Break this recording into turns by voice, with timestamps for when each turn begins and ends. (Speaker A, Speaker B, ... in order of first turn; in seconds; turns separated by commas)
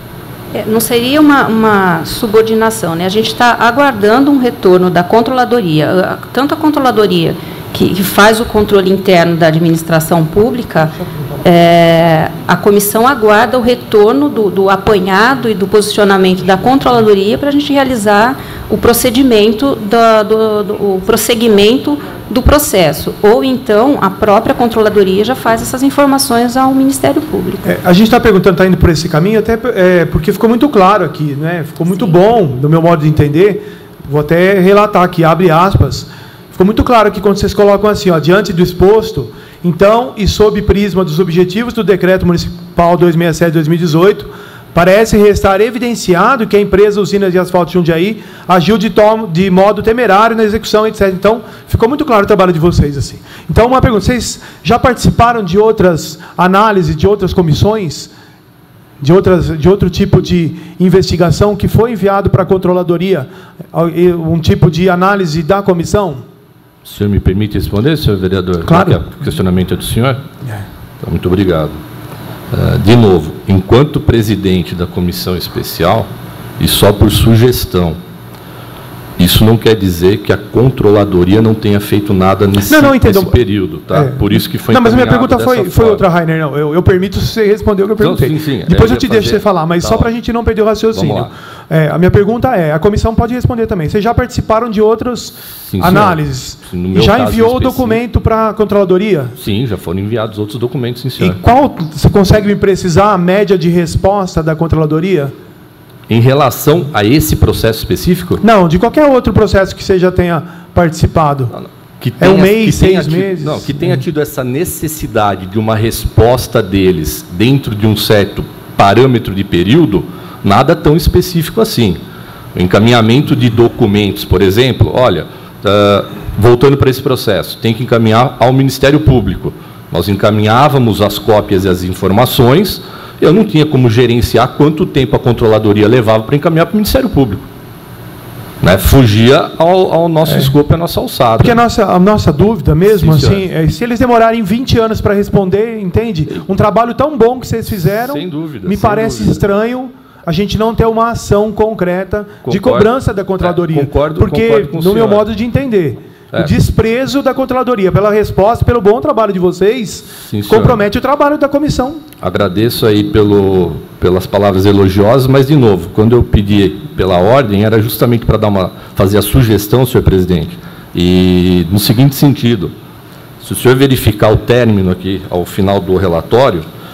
Speaker A: 0.5-27.7, Speaker B: 27.6-58.1, Speaker B: 59.0-66.2, Speaker C: 66.8-70.3, Speaker B: 68.6-69.0, Speaker C: 71.0-71.8, Speaker C: 72.5-78.0, Speaker C: 79.2-86.0, Speaker B: 82.7-83.4, Speaker B: 83.9-99.3, Speaker C: 88.0-90.1, Speaker C: 90.9-91.3, Speaker C: 95.6-98.0, Speaker C: 99.4-101.4, Speaker B: 101.2-105.3, Speaker C: 106.1-108.4, Speaker B: 108.4-111.5, Speaker C: 111.5-122.0, Speaker B: 112.2-114.0, Speaker C: 122.5-137.5, Speaker C: 138.6-141.6, Speaker B: 140.2-140.5, Speaker B: 141.4-162.0, Speaker C: 142.9-143.4, Speaker C: 147.8-149.4, Speaker C: 152.4-155.2, Speaker C: 160.2-160.8, Speaker C: 162.2-172.7, Speaker C: 173.4-176.6